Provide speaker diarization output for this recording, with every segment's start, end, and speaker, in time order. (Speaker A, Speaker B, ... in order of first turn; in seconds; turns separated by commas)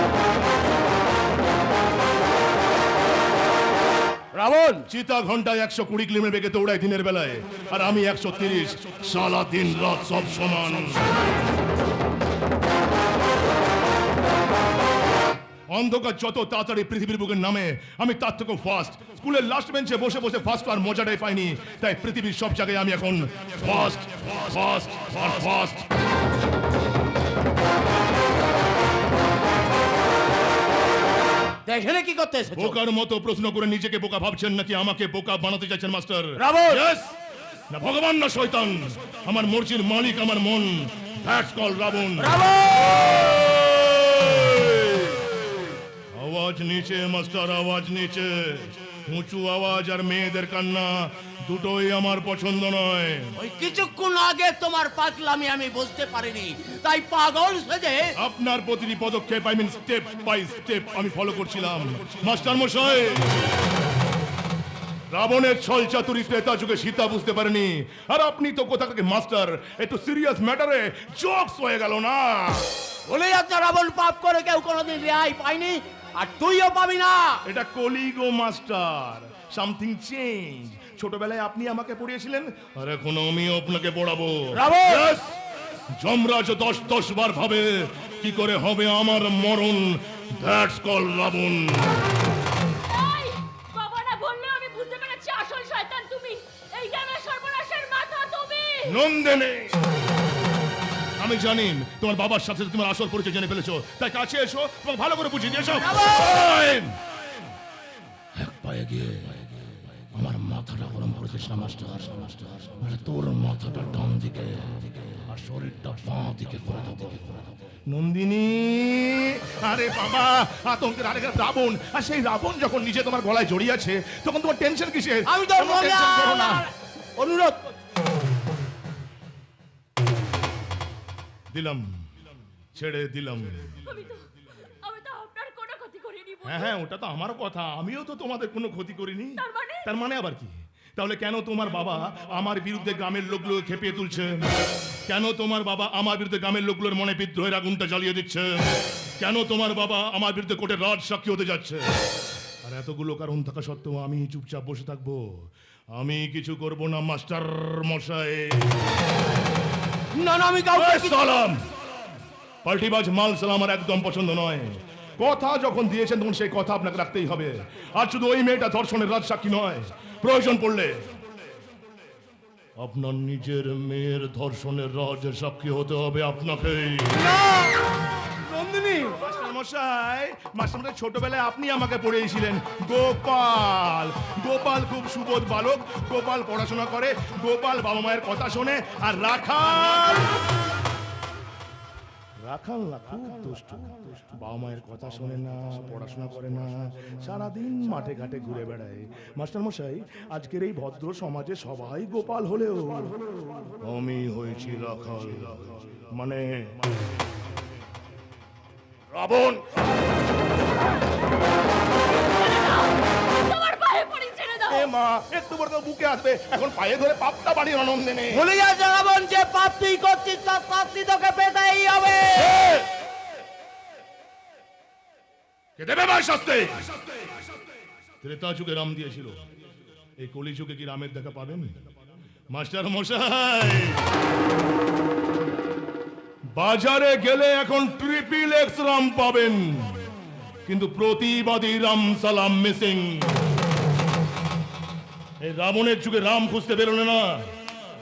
Speaker A: 4.3-4.9, Speaker B: 4.9-11.0, Speaker B: 15.7-25.9, Speaker A: 31.6-32.8, Speaker B: 32.5-37.1, Speaker A: 36.4-36.8, Speaker B: 37.7-42.3, Speaker A: 42.2-43.3, Speaker B: 43.0-45.1, Speaker B: 46.1-53.4, Speaker A: 53.4-58.1, Speaker B: 58.2-63.3, Speaker B: 65.1-72.7, Speaker A: 73.0-77.4, Speaker B: 77.4-85.3, Speaker A: 84.5-85.2, Speaker B: 85.9-92.0, Speaker C: 92.9-99.0, Speaker B: 98.8-99.7, Speaker B: 101.2-106.9, Speaker A: 105.7-106.4, Speaker B: 108.3-109.5, Speaker B: 110.1-117.2, Speaker B: 117.9-126.7, Speaker A: 125.2-127.7, Speaker B: 131.5-131.9, Speaker B: 132.7-133.8, Speaker C: 133.8-134.2, Speaker C: 134.8-136.7, Speaker B: 136.4-144.5, Speaker C: 139.4-139.9, Speaker B: 145.1-151.8, Speaker B: 152.6-155.3, Speaker B: 155.9-158.6, Speaker A: 160.1-161.2, Speaker B: 160.7-161.6, Speaker B: 162.6-171.0, Speaker B: 172.8-177.2, Speaker A: 177.1-179.2, Speaker B: 179.1-190.3, Speaker B: 192.4-203.1, Speaker B: 203.8-206.8, Speaker B: 209.1-209.6, Speaker C: 212.1-214.9, Speaker B: 214.7-218.4, Speaker A: 218.3-222.8, Speaker B: 225.8-226.8, Speaker B: 228.2-229.4, Speaker B: 230.2-231.7, Speaker B: 232.5-234.1, Speaker B: 236.5-240.1, Speaker B: 240.7-243.4, Speaker B: 245.4-247.5